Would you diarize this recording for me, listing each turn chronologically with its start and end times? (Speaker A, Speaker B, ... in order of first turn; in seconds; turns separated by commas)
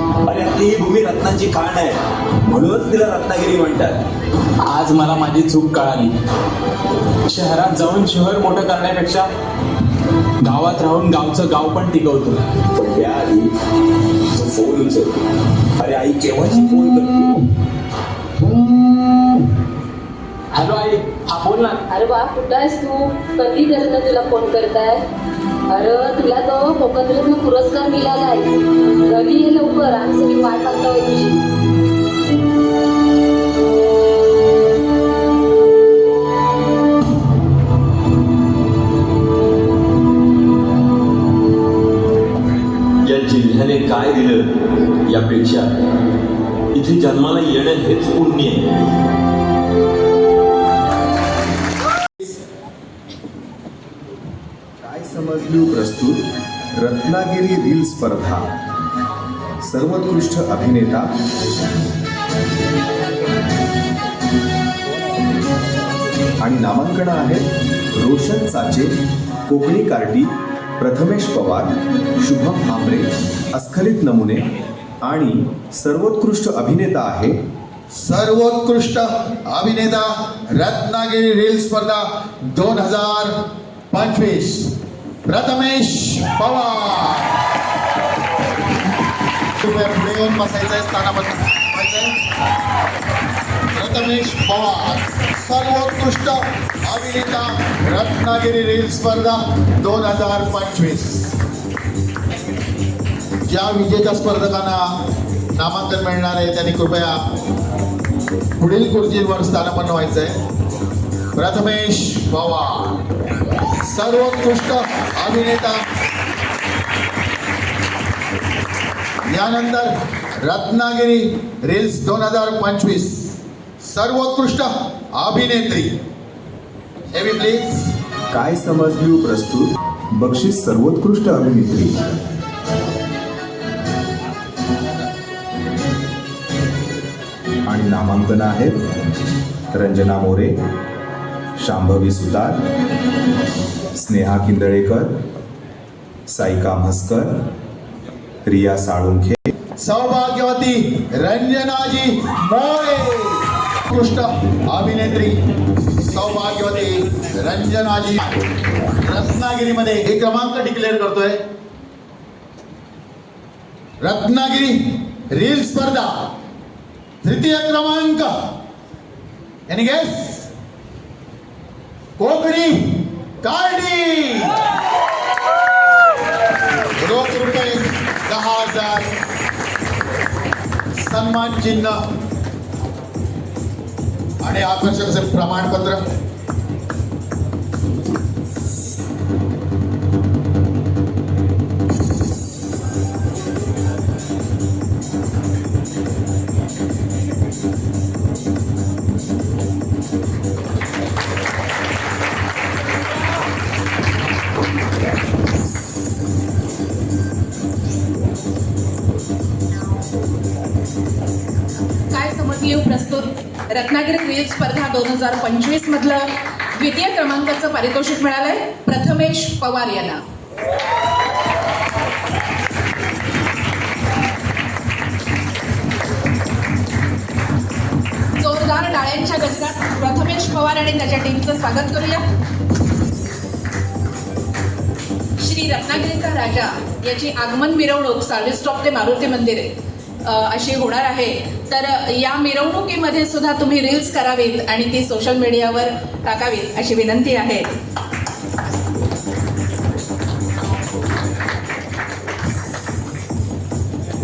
Speaker A: 0.3-4.0, Speaker B: 4.7-6.1, Speaker B: 7.3-9.2, Speaker B: 10.4-12.4, Speaker A: 12.8-13.5, Speaker A: 14.3-15.1, Speaker A: 15.8-17.4, Speaker B: 20.6-21.8, Speaker C: 21.9-25.0, Speaker C: 25.7-31.3, Speaker A: 43.5-43.8, Speaker D: 54.8-56.2, Speaker D: 56.8-58.4, Speaker D: 59.6-61.0, Speaker D: 66.4-68.9, Speaker D: 69.5-74.5, Speaker D: 75.0-77.4, Speaker E: 77.9-84.7, Speaker E: 85.2-87.3, Speaker E: 89.6-92.1, Speaker E: 93.7-101.4, Speaker E: 103.5-104.9, Speaker E: 105.5-107.3, Speaker E: 108.6-110.4, Speaker E: 111.3-113.0, Speaker E: 113.8-115.8, Speaker E: 119.3-125.9, Speaker E: 127.1-127.9, Speaker D: 128.3-132.2, Speaker D: 137.7-138.8, Speaker D: 139.7-140.5, Speaker D: 141.6-142.6, Speaker D: 143.9-145.1, Speaker D: 146.3-147.3, Speaker D: 148.4-149.5, Speaker E: 149.8-158.4, Speaker E: 159.0-161.4, Speaker E: 164.0-166.2, Speaker E: 167.2-168.3, Speaker E: 169.7-170.5, Speaker E: 172.2-174.6, Speaker E: 176.9-179.1, Speaker E: 181.0-182.0, Speaker E: 184.4-186.0, Speaker F: 212.1-220.2, Speaker F: 228.4-232.2, Speaker F: 235.4-239.7, Speaker F: 240.2-247.7